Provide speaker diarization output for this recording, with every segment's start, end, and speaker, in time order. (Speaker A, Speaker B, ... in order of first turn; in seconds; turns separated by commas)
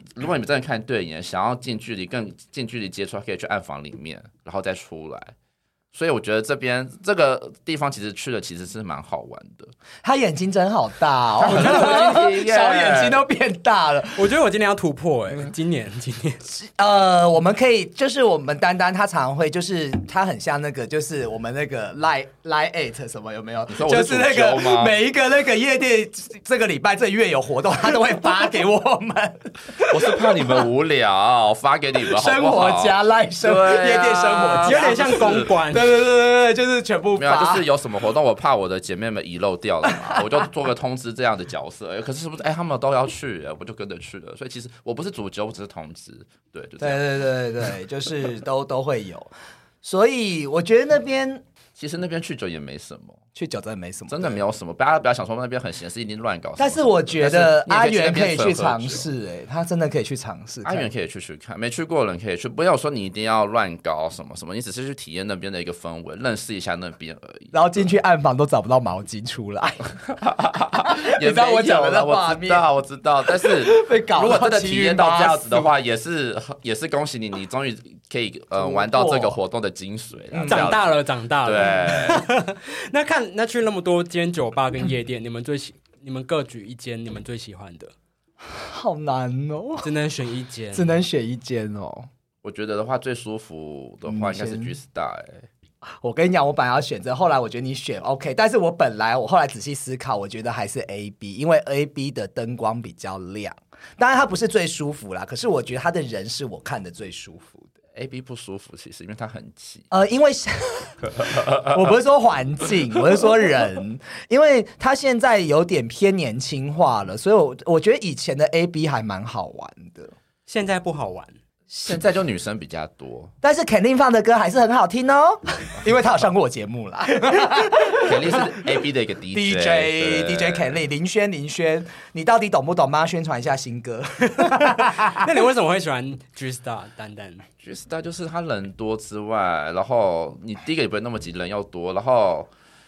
Speaker A: 0.2-5.3, Speaker A: 5.9-9.7, Speaker B: 10.0-14.3, Speaker A: 11.4-13.2, Speaker C: 11.4-12.0, Speaker C: 14.2-16.4, Speaker B: 16.5-30.7, Speaker A: 23.7-25.0, Speaker A: 29.9-35.5, Speaker B: 32.1-37.7, Speaker C: 34.6-35.9, Speaker A: 37.2-47.0, Speaker B: 39.9-40.4, Speaker B: 46.8-49.3, Speaker B: 49.8-51.4, Speaker A: 51.8-53.2, Speaker B: 53.4-54.4, Speaker A: 54.1-59.1, Speaker B: 56.6-60.9, Speaker A: 60.6-67.9, Speaker B: 67.5-70.0, Speaker A: 70.1-82.2, Speaker B: 70.8-72.7, Speaker B: 73.2-75.7, Speaker B: 78.6-79.4, Speaker B: 80.3-80.7, Speaker C: 80.5-87.9, Speaker B: 88.4-89.9, Speaker C: 89.8-91.0, Speaker B: 90.7-92.1, Speaker A: 92.4-95.5, Speaker B: 94.1-94.7, Speaker B: 95.8-107.7, Speaker A: 108.0-109.9, Speaker B: 109.9-120.1, Speaker C: 120.5-121.4, Speaker A: 121.7-123.3, Speaker B: 123.4-128.6, Speaker A: 127.9-130.8, Speaker B: 129.3-135.3, Speaker C: 134.4-137.4, Speaker A: 137.6-142.5